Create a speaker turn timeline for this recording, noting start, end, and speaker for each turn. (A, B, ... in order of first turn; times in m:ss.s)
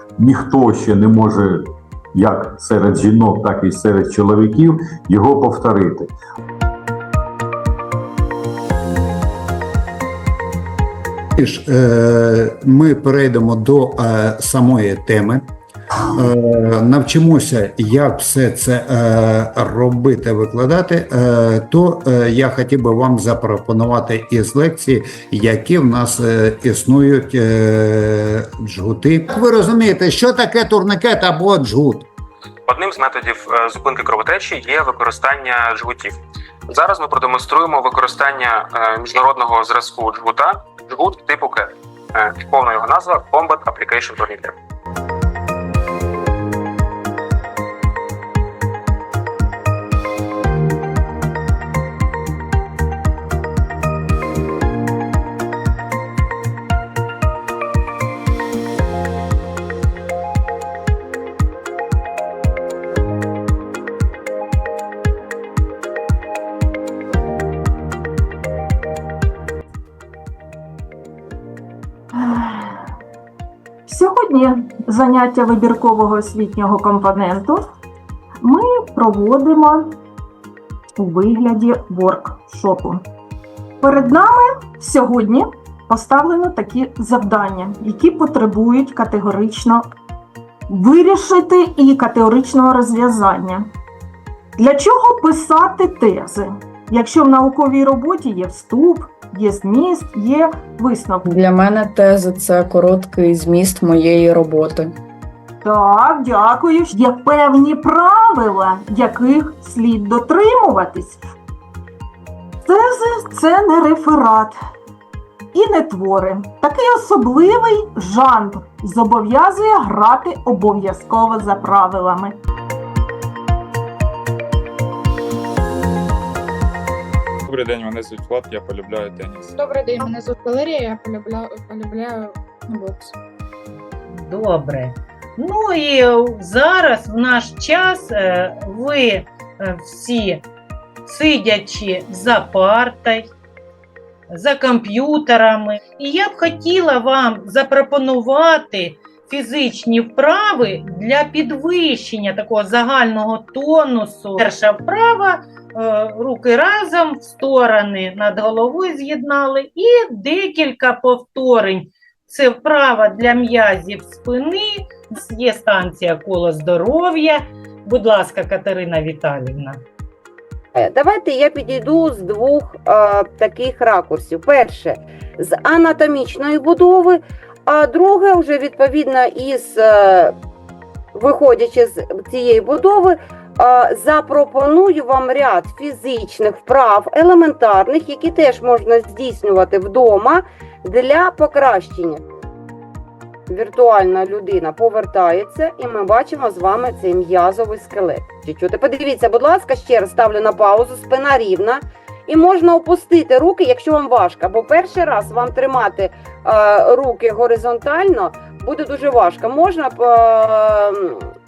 0:00.2-0:06.1 A
0:11.4-0:15.5 B
0:16.0-0:32.0 B
0:32.7-0:36.1 C
0:36.7-0:44.5 C
1:12.1-1:12.8 D
1:13.9-1:17.6 D
1:18.4-1:19.9 D
1:20.9-1:23.0 D
1:23.8-1:29.9 D
1:30.7-1:33.7 D
1:34.6-1:41.2 D
1:41.2-1:44.9 E
1:45.6-1:51.2 D
1:52.6-1:54.6 D
1:55.5-2:02.3 D
2:07.5-2:09.5 F
2:09.5-2:13.1 G
2:14.2-2:20.4 H
2:21.0-2:23.3 H
2:24.3-2:49.8 H
2:50.7-3:00.3 I
3:01.1-3:12.2 I
3:13.5-3:31.3 I